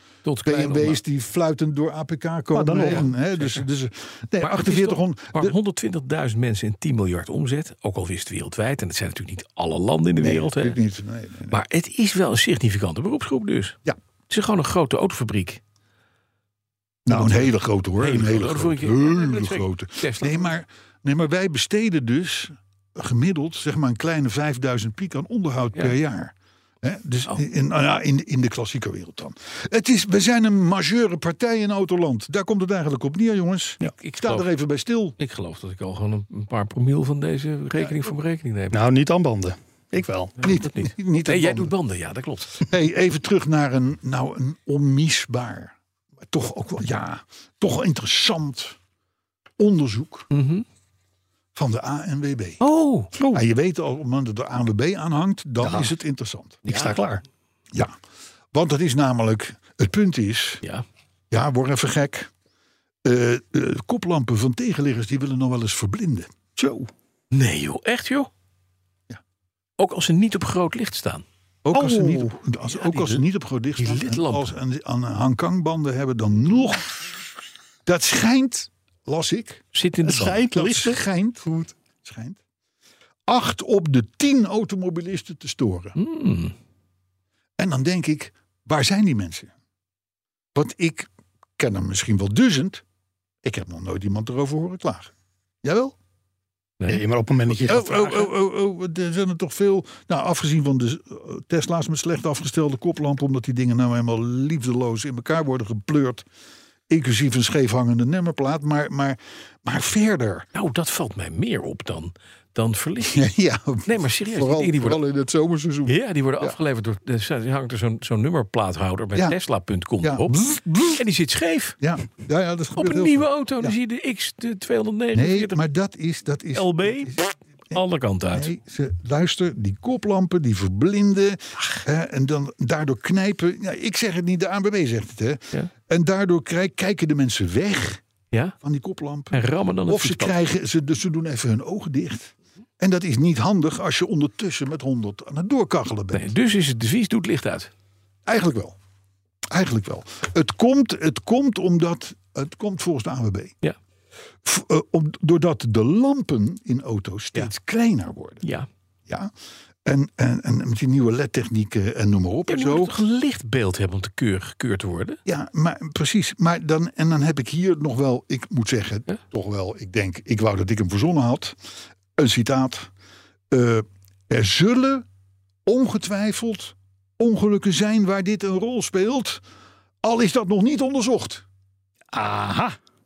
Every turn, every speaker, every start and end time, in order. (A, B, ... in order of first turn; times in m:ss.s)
0:00.2-0:01.0 A
0:00.4-0:05.6 B
0:02.5-0:03.1 C
0:03.3-0:03.6 A
0:04.4-0:10.8 A
0:10.2-0:11.6 B
0:11.5-0:13.8 A
0:14.3-0:15.6 A
0:17.1-0:35.2 B
0:17.1-0:20.6 A
0:34.0-0:34.5 A
0:35.2-0:38.8 A
0:38.7-0:40.3 C
0:40.4-0:42.7 A
0:40.4-0:41.7 B
0:42.6-0:48.8 B
0:49.6-0:50.3 B
0:50.3-0:50.6 A
0:51.6-0:52.6 B
0:52.6-0:53.1 A
0:53.3-0:56.6 B
0:55.6-0:55.9 C
0:56.7-0:57.0 A
0:56.7-0:57.2 C
0:58.5-1:00.6 B
1:01.3-1:02.3 B
1:03.0-1:06.3 B
1:06.6-1:06.9 C
1:07.3-1:08.3 A
1:09.8-1:11.2 A
1:11.6-1:17.1 B
1:11.7-1:12.4 C
1:12.7-1:13.2 A
1:13.8-1:14.5 A
1:17.9-1:19.7 B
1:19.7-1:20.4 A
1:20.0-1:21.0 C
1:20.4-1:22.4 B
1:23.3-1:26.0 B
1:26.0-1:26.5 A
1:27.6-1:29.5 B
1:30.6-1:32.8 B
1:33.4-1:35.1 B
1:35.6-1:36.0 B
1:36.9-1:38.3 C
1:37.6-1:46.3 B
1:46.9-1:50.5 B
1:50.5-1:53.3 A
1:53.1-1:56.6 B
1:53.8-1:55.0 A
1:55.9-2:00.4 A
2:00.0-2:01.0 B
2:01.0-2:01.8 A
2:01.8-2:03.8 B
2:02.8-2:05.6 A
2:05.1-2:07.2 B
2:06.5-2:08.5 A
2:08.3-2:18.0 B
2:18.6-2:26.3 B
2:19.3-2:20.4 A
2:26.1-2:27.7 A
2:28.3-2:28.8 B
2:29.5-2:33.5 B
2:34.4-2:38.4 B
2:38.4-2:38.7 A
2:39.8-2:43.0 B
2:42.5-2:45.2 A
2:45.3-2:51.6 B
2:52.2-2:52.9 B
2:53.5-2:55.1 B
2:55.7-2:59.4 B
3:00.0-3:01.4 B
3:02.1-3:02.8 C